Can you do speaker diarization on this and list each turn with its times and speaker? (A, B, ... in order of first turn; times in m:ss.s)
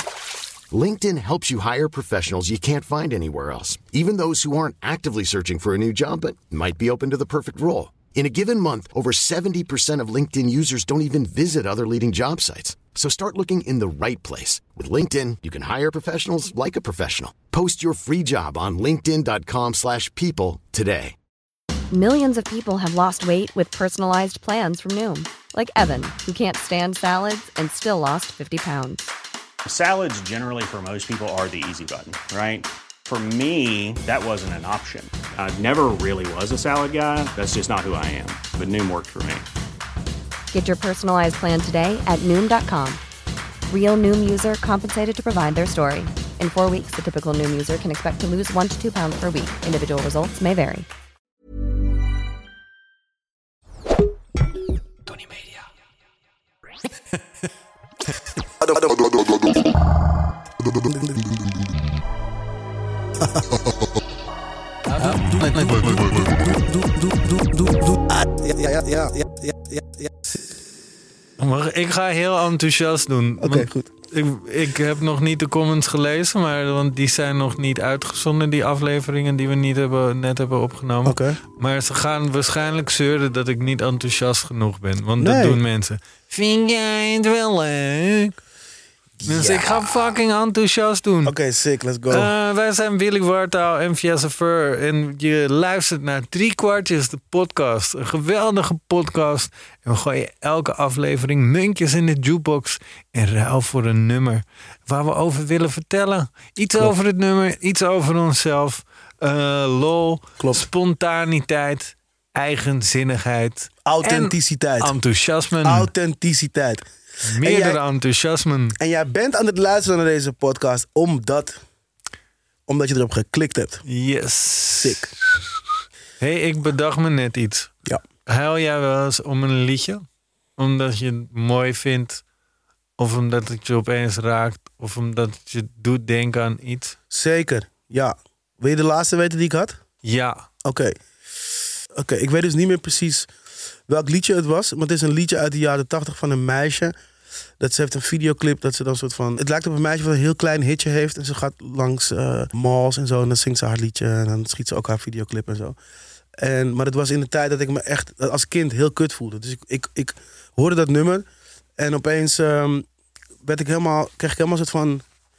0:00.7-0:21.2 A
0:21.9-0:29.1 B
0:29.6-0:39.5 C
0:40.5-0:43.0 B
0:43.7-0:50.9 B
0:58.6-0:59.6 D
1:00.6-1:01.4 D
1:03.3-1:03.7 D
1:04.9-1:06.6 E
1:05.0-1:10.4 D
1:11.4-1:28.4 E
1:13.4-1:13.9 D
1:21.0-1:21.4 D
1:25.2-1:25.6 D
1:29.2-1:29.8 D
1:29.2-1:31.3 E
1:31.2-1:32.3 D
1:32.1-1:55.9 E
1:50.4-1:50.6 D
1:53.8-1:54.9 D
1:55.6-1:56.8 D
1:57.2-1:58.8 E
1:57.4-1:57.8 D
1:58.8-2:01.6 D
2:02.7-2:03.8 D
2:03.8-2:05.4 E
2:04.8-2:05.1 D
2:06.2-2:07.7 E
2:08.3-2:10.0 E
2:10.6-2:12.2 E
2:13.0-2:17.0 E
2:17.1-2:19.8 D
2:20.0-2:20.4 E
2:20.6-2:21.0 D
2:21.9-2:23.3 D
2:23.9-2:26.9 D
2:27.6-2:35.8 D
2:36.4-2:41.2 D
2:41.8-2:42.8 D
2:43.4-2:45.0 D